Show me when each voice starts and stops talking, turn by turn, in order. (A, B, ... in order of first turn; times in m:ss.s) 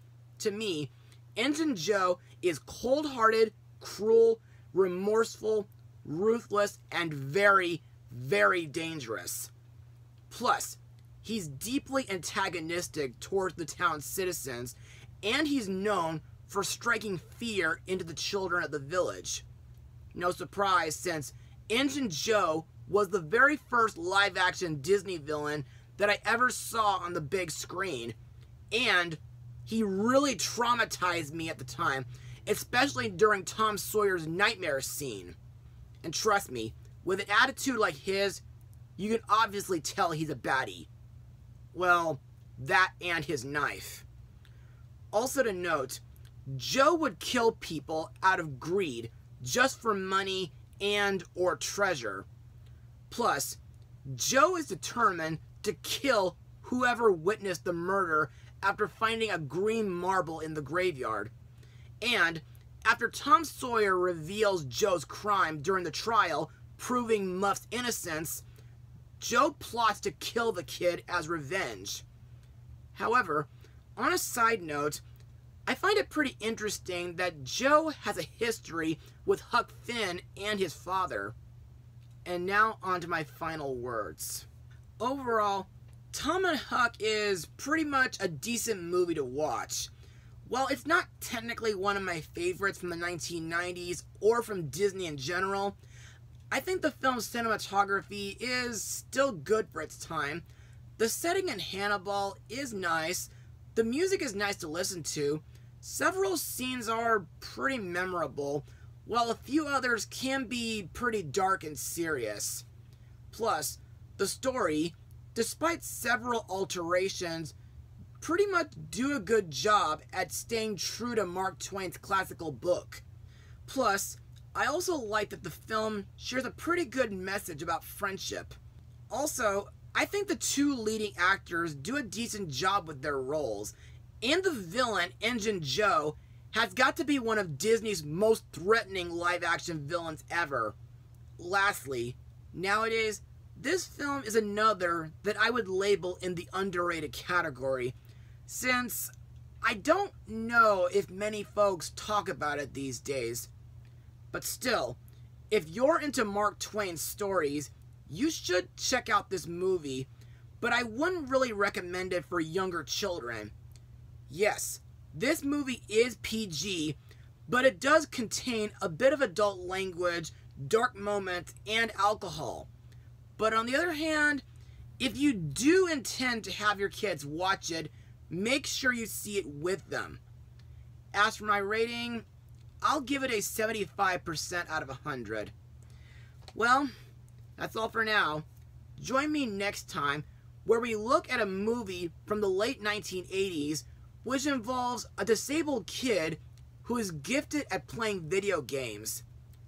0:00.4-0:09.5 A
0:10.3-0:19.4 A
0:20.1-0:28.2 A
0:28.7-0:35.4 A
0:36.0-0:38.4 A
0:39.0-0:40.9 A
0:41.7-0:44.0 A
0:45.1-0:52.2 A
0:53.1-1:01.3 A
1:02.0-1:08.4 A
1:09.2-1:12.0 A
1:12.9-1:15.0 A
1:15.6-1:21.3 A
1:22.2-1:24.5 A
1:25.0-1:29.9 A
1:30.4-1:35.8 A
1:36.5-1:40.4 A
1:41.0-1:52.6 A
1:53.3-1:57.5 A
1:58.2-2:03.0 A
2:03.6-2:08.5 A
2:09.1-2:20.7 A
2:21.4-2:27.9 A
2:28.5-2:33.5 A
2:34.3-2:35.0 A
2:35.5-2:40.1 A
2:40.6-2:43.5 A
2:44.3-2:52.7 A
2:53.4-2:54.4 A
2:55.0-3:00.2 A
3:01.1-3:02.2 A
3:02.8-3:05.5 A
3:06.5-3:06.9 A
3:07.6-3:08.4 A
3:09.0-3:19.2 A